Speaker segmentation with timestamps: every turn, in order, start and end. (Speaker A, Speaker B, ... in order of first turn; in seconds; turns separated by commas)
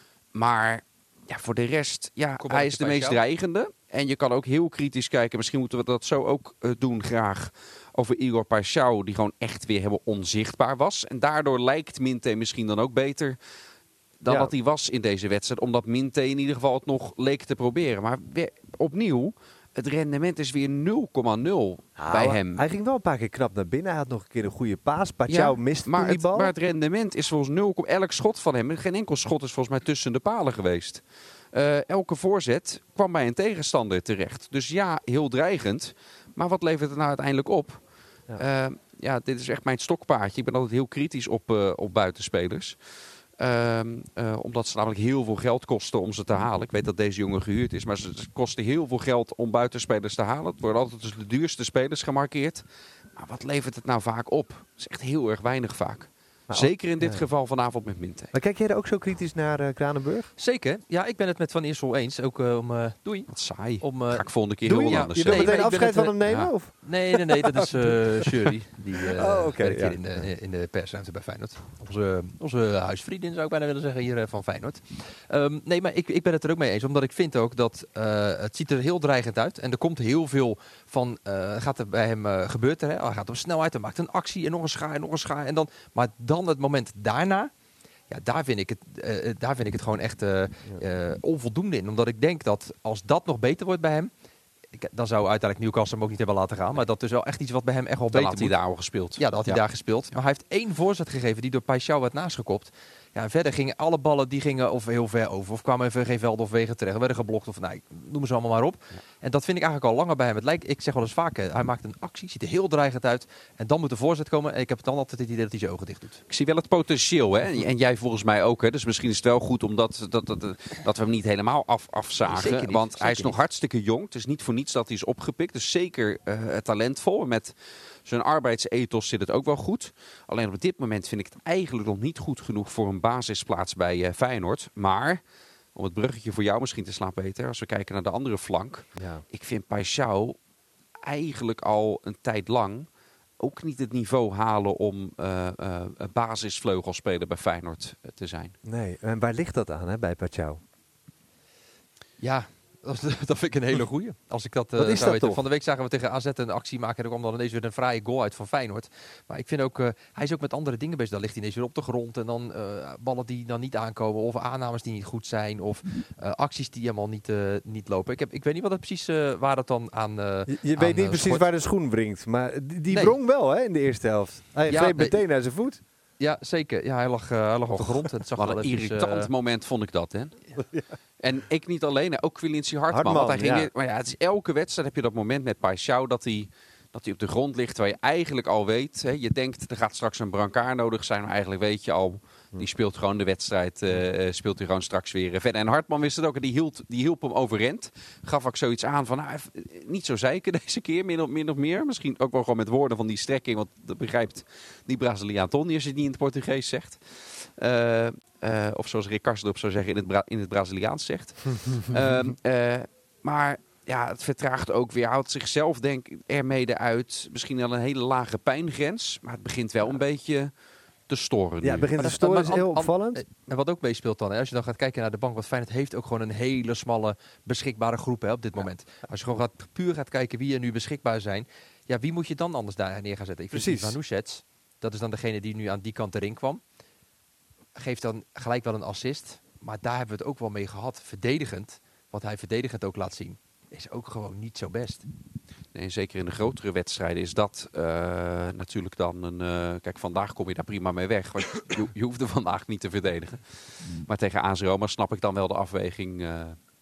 Speaker A: 0.3-13.4, Speaker B: 2.4-3.2, Speaker A: 14.2-22.6, Speaker C: 14.3-14.5, Speaker C: 22.0-26.5, Speaker A: 25.3-37.8, Speaker A: 38.4-42.8, Speaker A: 43.4-52.6, Speaker A: 53.1-58.3, Speaker C: 56.5-57.2, Speaker C: 58.3-60.3, Speaker B: 60.4-63.3, Speaker A: 63.3-65.6, Speaker B: 63.8-66.2, Speaker C: 64.7-68.0, Speaker A: 66.2-66.5, Speaker B: 66.7-87.5, Speaker C: 69.1-70.0, Speaker B: 88.1-94.1, Speaker B: 94.8-98.5, Speaker A: 98.1-99.6, Speaker B: 99.2-116.2, Speaker A: 116.3-127.5, Speaker B: 122.3-123.4, Speaker A: 128.1-135.2, Speaker A: 135.8-140.4, Speaker C: 139.0-139.2, Speaker A: 141.0-142.9, Speaker A: 143.4-148.6, Speaker C: 148.7-150.6, Speaker B: 152.2-171.5, Speaker C: 154.8-155.4, Speaker C: 170.5-175.8, Speaker B: 172.9-173.2, Speaker B: 174.7-175.2, Speaker B: 176.2-179.3, Speaker A: 177.7-180.4, Speaker C: 180.6-180.8, Speaker A: 181.2-220.5, Speaker C: 182.9-183.7, Speaker A: 221.1-221.9, Speaker C: 221.6-223.2, Speaker B: 222.0-236.6, Speaker C: 233.5-234.0, Speaker B: 237.8-245.1, Speaker A: 245.7-256.6